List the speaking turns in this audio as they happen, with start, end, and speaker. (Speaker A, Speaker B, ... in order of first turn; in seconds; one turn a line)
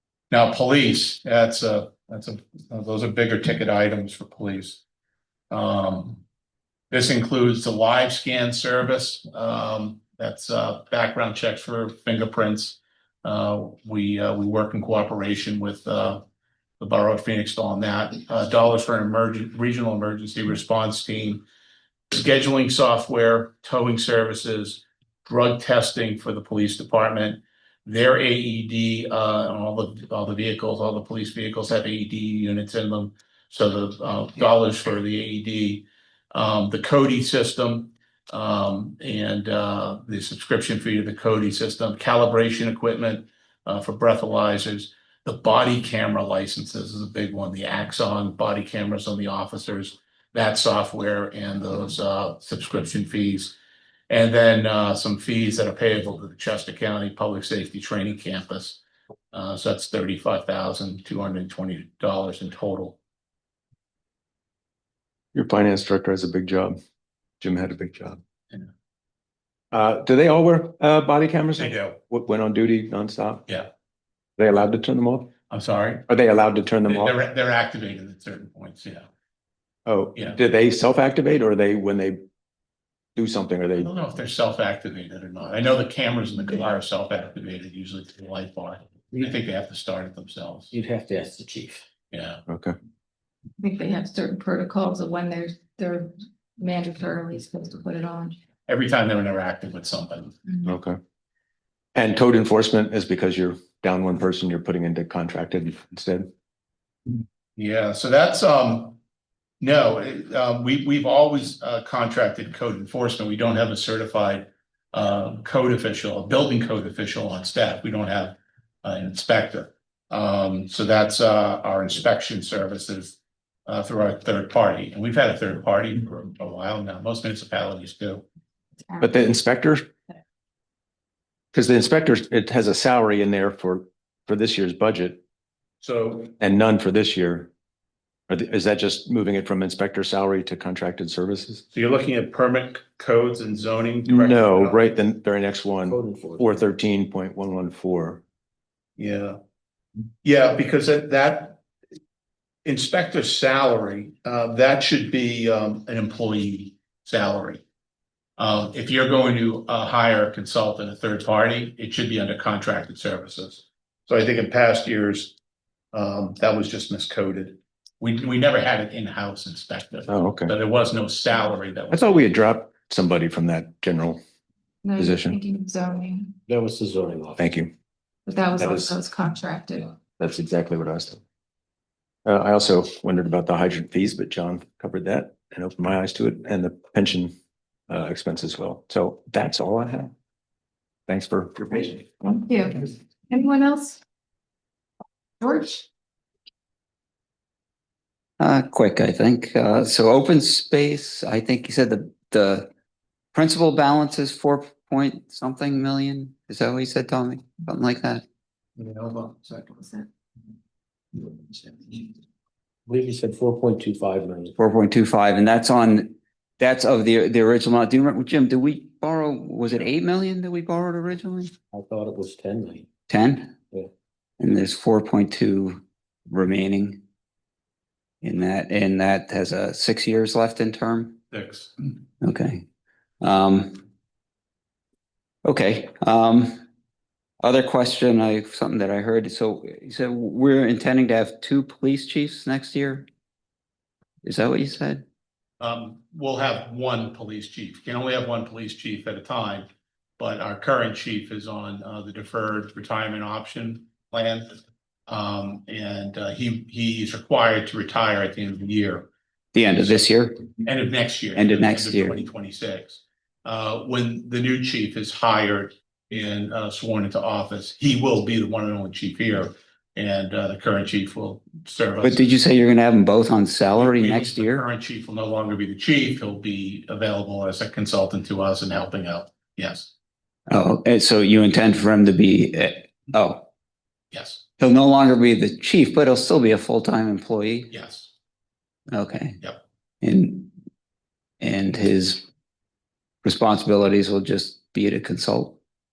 Speaker A: 0.3-4.8
Speaker A: 5.5-6.2
Speaker A: 6.9-16.2
Speaker A: 16.8-21.4
Speaker A: 22.1-53.5
Speaker A: 54.1-58.8
Speaker A: 59.3-63.0
Speaker B: 65.3-66.8
Speaker B: 67.4-68.2
Speaker B: 69.7-73.5
Speaker A: 71.6-72.0
Speaker B: 74.4-75.3
Speaker A: 75.5-76.0
Speaker B: 76.1-77.1
Speaker A: 76.8-79.1
Speaker B: 79.8-82.2
Speaker B: 83.2-83.9
Speaker A: 83.8-90.7
Speaker C: 90.7-91.8
Speaker A: 92.1-92.4
Speaker B: 92.5-92.7
Speaker D: 93.6-98.3
Speaker A: 98.7-100.4
Speaker B: 100.6-101.0
Speaker B: 101.9-106.3
Speaker A: 107.6-109.0
Speaker A: 109.6-128.2
Speaker B: 129.0-129.9
Speaker B: 131.5-135.2
Speaker A: 135.8-136.3
Speaker B: 136.4-137.5
Speaker B: 138.3-141.6
Speaker A: 141.7-144.8
Speaker B: 144.1-148.2
Speaker C: 145.9-146.5
Speaker A: 149.0-149.4
Speaker A: 150.2-151.6
Speaker A: 152.6-157.6
Speaker A: 158.4-165.3
Speaker A: 165.9-172.3
Speaker B: 170.1-170.5
Speaker B: 171.9-174.2
Speaker D: 174.8-176.4
Speaker B: 175.0-175.4
Speaker C: 176.5-177.5
Speaker B: 177.3-177.7
Speaker D: 178.2-180.0
Speaker B: 178.6-179.0
Speaker B: 180.1-181.2
Speaker B: 182.2-187.3
Speaker B: 187.9-190.1
Speaker B: 191.1-192.0
Speaker D: 192.2-194.0
Speaker D: 195.4-195.8
Speaker E: 198.4-202.7
Speaker E: 203.3-208.2
Speaker D: 209.7-210.1
Speaker C: 212.9-214.5
Speaker E: 214.6-221.5
Speaker C: 221.7-222.9
Speaker E: 223.1-223.5
Speaker E: 224.4-227.0
Speaker E: 228.2-231.2
Speaker A: 231.3-231.7
Speaker E: 232.2-232.6
Speaker E: 233.2-233.8
Speaker E: 235.4-236.6
Speaker E: 237.4-243.1
Speaker E: 244.2-245.0
Speaker A: 245.6-249.7
Speaker A: 250.2-259.1
Speaker E: 259.5-260.5
Speaker A: 259.8-260.1
Speaker A: 260.6-272.2
Speaker E: 261.3-262.2
Speaker E: 272.0-274.6
Speaker A: 273.8-279.9
Speaker E: 280.5-283.4
Speaker A: 284.1-284.4
Speaker E: 284.6-287.7
Speaker A: 287.7-288.1
Speaker E: 288.9-289.4
Speaker E: 290.0-290.5
Speaker E: 291.4-292.2
Speaker E: 293.2-295.6